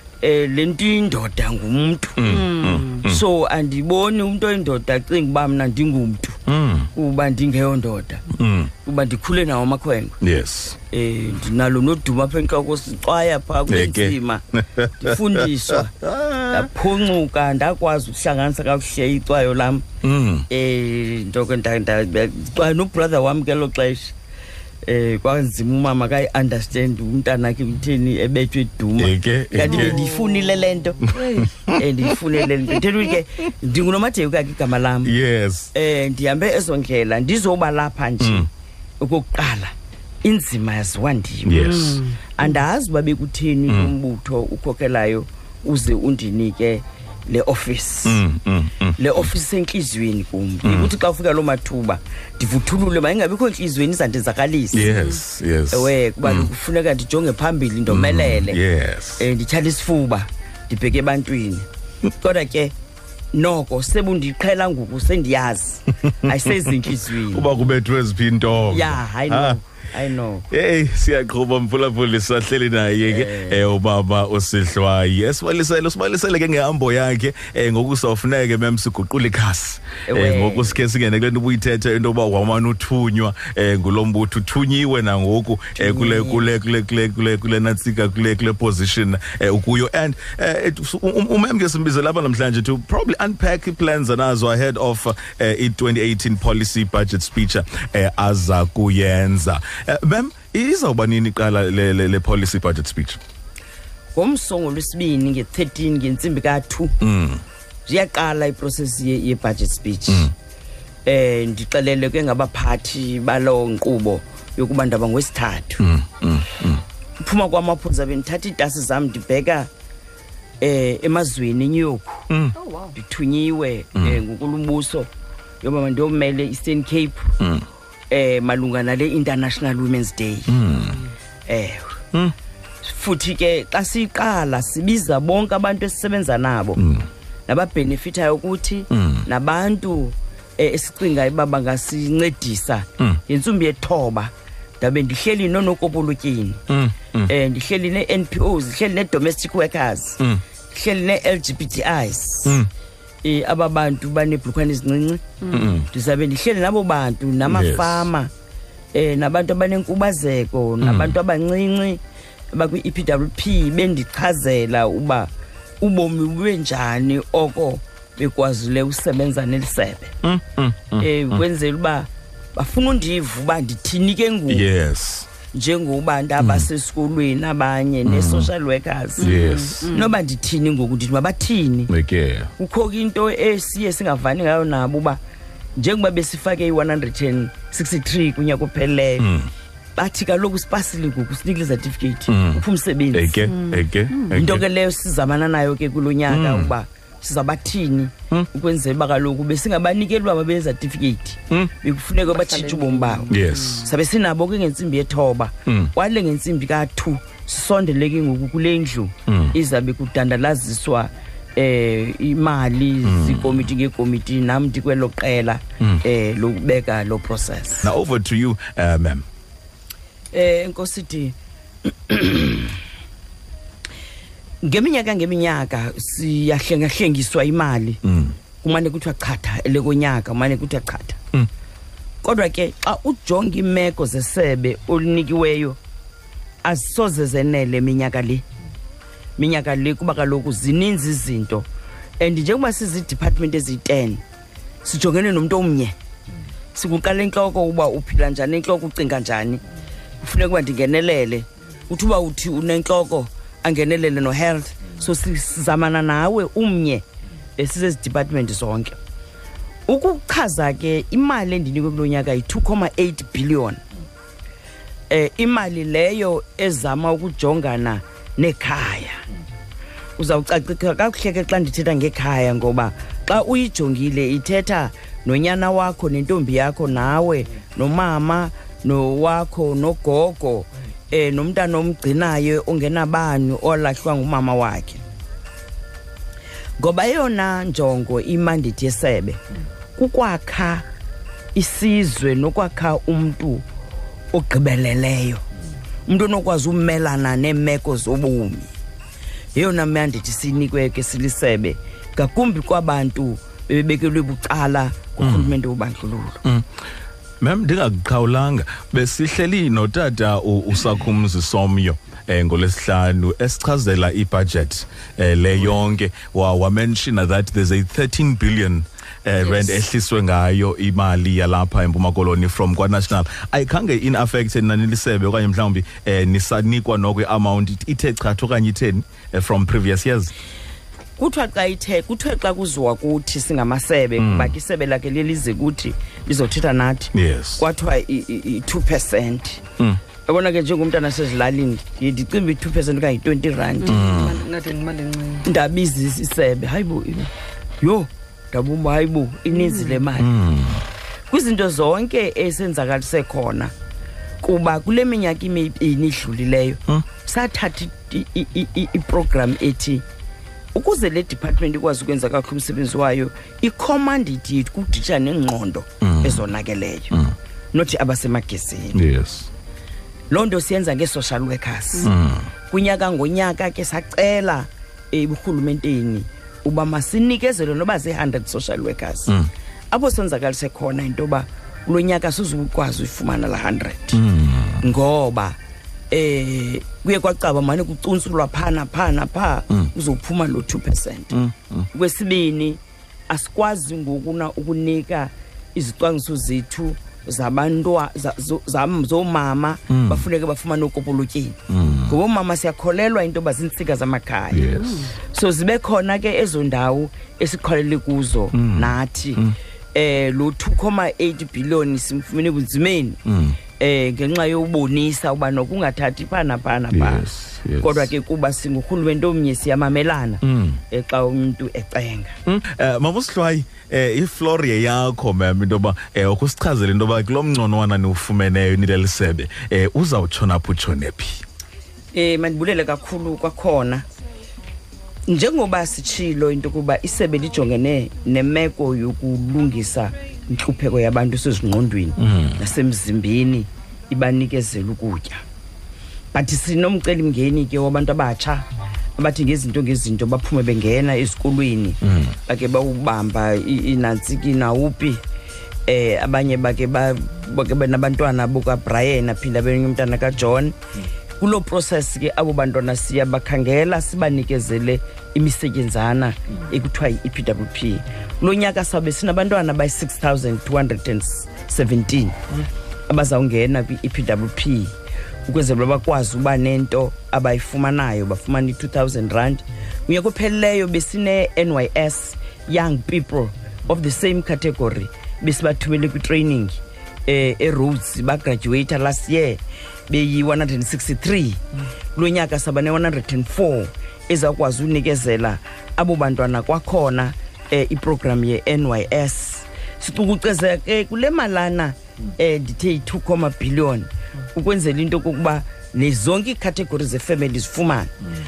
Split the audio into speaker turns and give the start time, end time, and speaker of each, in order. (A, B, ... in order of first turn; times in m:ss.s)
0:00.2-0:02.3 A
0:02.2-0:03.2 B
0:02.2-0:03.0 C
0:03.0-0:06.4 A
0:06.5-0:06.9 B
0:07.0-0:08.2 A
0:08.3-0:08.7 B
0:08.8-0:10.2 A
0:10.2-0:10.8 B
0:10.9-0:14.4 A
0:13.7-0:16.7 B
0:15.0-0:16.0 A
0:16.5-0:19.8 A
0:20.0-0:20.5 B
0:20.5-0:24.1 A
0:24.8-0:31.2 A
0:29.0-0:30.1 B
0:29.7-0:31.5 C
0:31.1-0:32.8 B
0:31.7-0:35.1 A
0:35.0-0:35.7 B
0:35.7-0:38.5 A
0:38.2-0:38.5 B
0:39.0-0:48.2 A
0:41.5-0:42.0 B
0:41.6-0:42.2 C
0:43.7-0:43.9 B
0:48.0-0:49.3 B
0:49.0-0:54.9 A
0:50.6-0:50.9 B
0:54.7-0:56.5 B
0:55.7-0:58.6 A
0:57.9-0:59.3 B
0:59.2-1:01.7 A
1:02.2-1:02.8 A
1:03.3-1:07.5 A
1:06.2-1:09.6 B
1:08.7-1:10.5 A
1:10.5-1:43.2 B
1:13.1-1:13.7 A
1:20.1-1:20.8 A
1:25.8-1:26.5 A
1:44.2-1:47.0 A
1:47.0-1:47.4 B
1:47.9-1:50.3 A
1:51.1-1:55.9 A
1:55.8-1:56.8 B
1:57.2-1:59.7 A
2:00.6-2:02.3 A
2:02.3-2:02.6 B
2:02.6-2:02.9 C
2:02.9-2:05.1 A
2:05.6-2:07.3 A
2:07.4-2:07.7 B
2:08.1-2:10.6 A
2:10.5-2:11.0 B
2:11.5-2:12.0 A
2:12.8-2:16.8 A
2:16.8-2:17.1 B
2:17.5-2:26.6 A
2:18.9-2:19.3 B
2:26.7-2:27.3 B
2:27.3-2:30.2 A
2:30.7-2:32.6 A
2:33.2-2:35.4 A
2:35.4-2:35.7 C
2:35.5-2:35.9 B
2:35.9-2:38.3 A
2:37.4-2:38.1 B
2:38.9-2:42.0 A
2:40.8-2:41.2 B
2:42.5-2:45.3 A
2:45.8-2:50.1 A
2:50.2-2:51.4 B
2:51.0-2:54.7 A
2:54.5-2:55.3 B
2:55.5-3:01.9 A
2:56.4-2:56.7 B
2:58.0-2:58.5 B
2:59.2-2:59.9 B
2:59.2-3:00.1 C
3:01.9-3:02.5 B
3:02.6-3:05.2 A
3:05.8-3:09.3 A
3:09.2-3:09.5 B
3:10.0-3:13.5 A
3:12.3-3:14.7 B
3:13.5-3:14.3 C
3:14.3-3:37.9 A
3:16.3-3:16.7 B
3:22.3-3:23.9 C
3:23.3-3:23.9 B
3:25.7-3:25.9 B
3:29.3-3:29.6 B
3:33.0-3:33.7 B
3:37.8-3:39.3 B
3:40.3-3:41.4 A
3:42.1-3:42.8 A
3:44.6-3:48.0 A
3:48.0-3:48.4 B
3:48.6-3:51.2 A
3:52.2-3:55.8 A
3:56.6-3:58.4 A
3:59.4-4:01.7 A
4:02.2-4:04.2 A
4:04.8-4:06.0 A
4:06.8-4:09.6 A
4:10.2-4:17.0 A
4:17.6-4:19.0 A
4:19.9-4:23.8 A
4:25.1-4:29.2 A
4:30.2-4:45.0 A
4:46.8-4:49.4 A
4:50.0-4:50.8 A
4:51.6-4:53.6 A
4:54.3-4:55.4 A
4:56.1-4:58.7 A
4:59.6-5:06.4 A
5:05.2-5:05.5 B
5:07.4-5:30.3 B
5:31.2-5:39.6 A
5:34.2-5:34.6 B
5:37.1-5:37.6 B
5:40.3-5:44.1 A
5:43.8-5:45.5 C
5:43.9-5:44.4 B
5:45.4-5:50.3 A
5:49.6-5:50.0 C
5:50.2-5:50.9 B
5:51.3-5:53.7 A
5:54.4-6:00.0 A
6:00.8-6:07.1 A
6:06.0-6:06.5 B
6:07.7-6:09.0 A
6:08.9-6:09.5 B
6:10.3-6:12.1 A
6:12.0-6:12.5 B
6:12.7-6:19.4 A
6:19.9-6:24.2 A
6:24.1-6:24.8 B
6:24.8-6:25.6 A
6:26.1-6:31.3 A
6:31.3-6:31.9 B
6:31.9-6:49.4 A
6:39.9-6:40.3 B
6:41.7-6:42.2 B
6:44.5-6:45.1 B
6:44.8-6:45.1 C
6:48.5-6:49.6 B
6:49.9-6:53.2 A
6:53.2-6:53.6 B
6:53.8-6:57.3 A
6:56.9-6:58.1 B
6:57.8-7:02.4 A
7:00.4-7:00.8 B
7:02.5-7:11.4 B
7:12.1-7:14.0 A
7:15.3-7:25.4 A
7:22.2-7:22.6 B
7:26.3-7:28.7 A
7:29.2-7:35.2 A
7:32.0-7:32.4 B
7:35.9-7:40.8 A
7:41.4-7:52.4 A
7:53.1-7:54.9 A
7:55.5-8:11.6 A
8:12.2-8:28.1 A